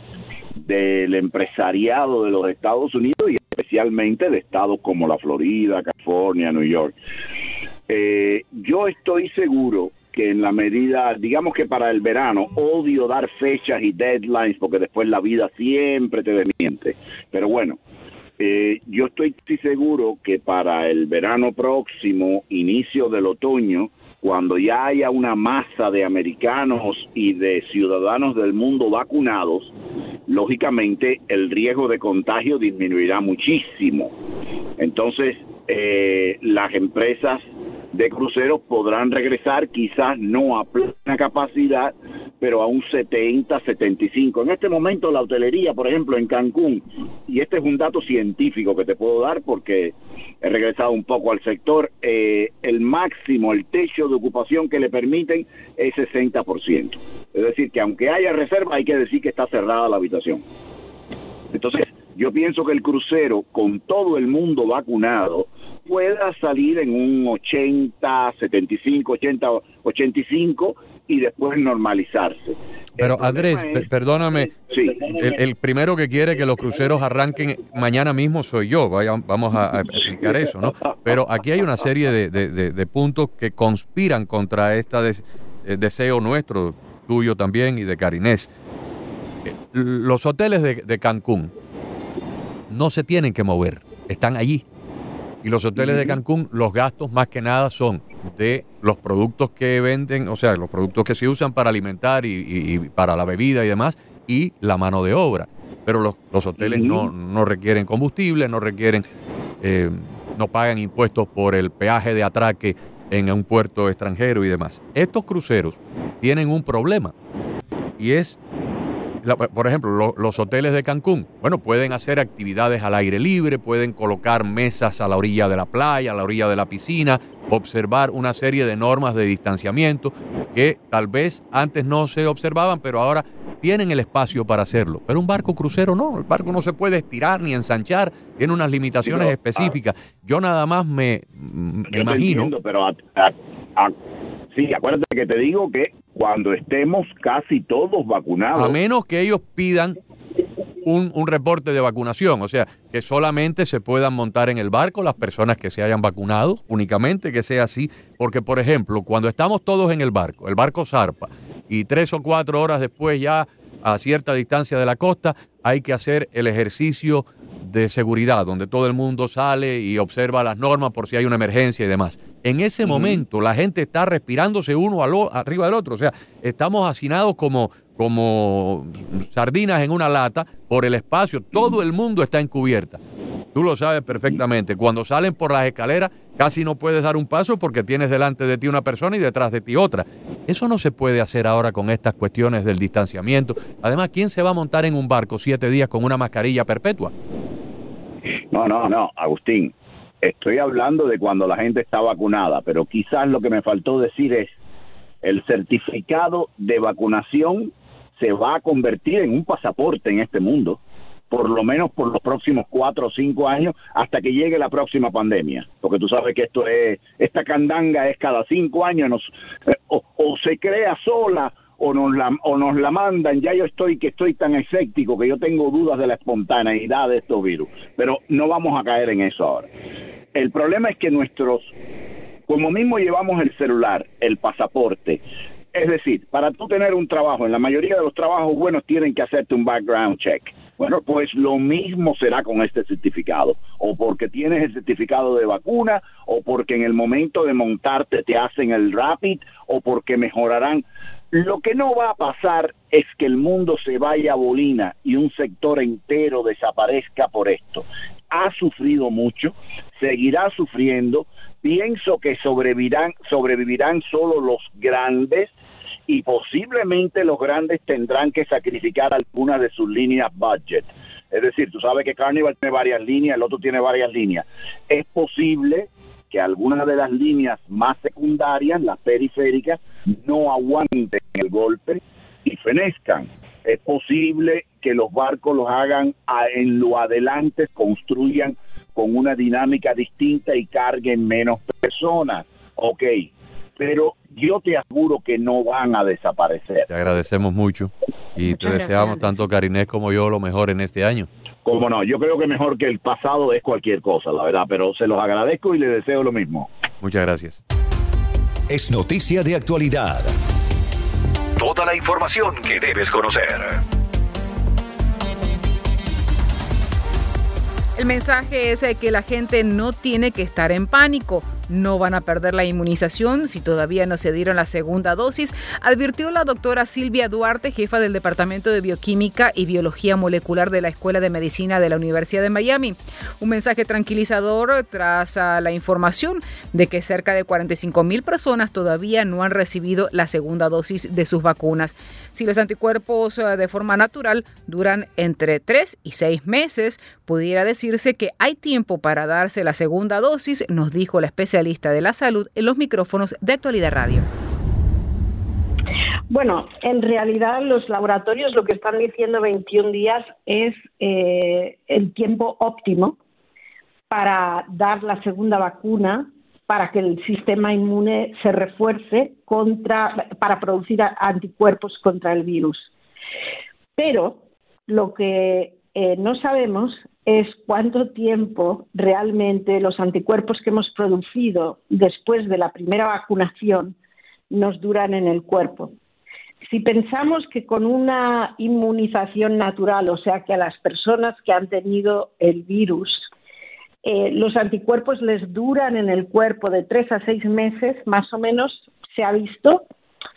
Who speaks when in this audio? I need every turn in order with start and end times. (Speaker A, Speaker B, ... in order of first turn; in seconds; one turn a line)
Speaker A: 0.6-7.0
Speaker A: 7.9-17.8
Speaker A: 18.4-29.7
Speaker A: 30.3-34.1
Speaker A: 34.8-60.4
Speaker A: 61.5-75.4
Speaker B: 73.0-88.5
Speaker B: 89.7-91.5
Speaker B: 92.7-94.7
Speaker B: 95.4-109.0
Speaker A: 95.8-96.2
Speaker A: 106.6-107.1
Speaker B: 109.6-117.1
Speaker B: 118.0-118.4
Speaker B: 119.2-142.5
Speaker A: 139.1-139.8
Speaker A: 141.9-143.9
Speaker A: 144.5-148.8
Speaker B: 148.6-150.0
Speaker B: 150.8-183.0
Speaker A: 172.8-173.2
Speaker B: 183.5-197.1
Speaker A: 198.5-204.6
Speaker A: 205.2-210.8
Speaker A: 211.3-229.7
Speaker A: 230.3-231.7
Speaker A: 232.5-235.2
Speaker A: 235.7-265.5
Speaker A: 266.1-296.9
Speaker B: 296.9-301.3
Speaker C: 298.5-299.4
Speaker A: 301.6-306.7
Speaker B: 307.0-307.6
Speaker D: 308.7-310.3
Speaker D: 311.6-313.8
Speaker C: 318.0-354.3
Speaker E: 356.3-363.2
Speaker E: 364.1-372.9
Speaker E: 374.0-384.0
Speaker E: 384.5-385.9
Speaker E: 386.7-393.3
Speaker E: 394.0-399.8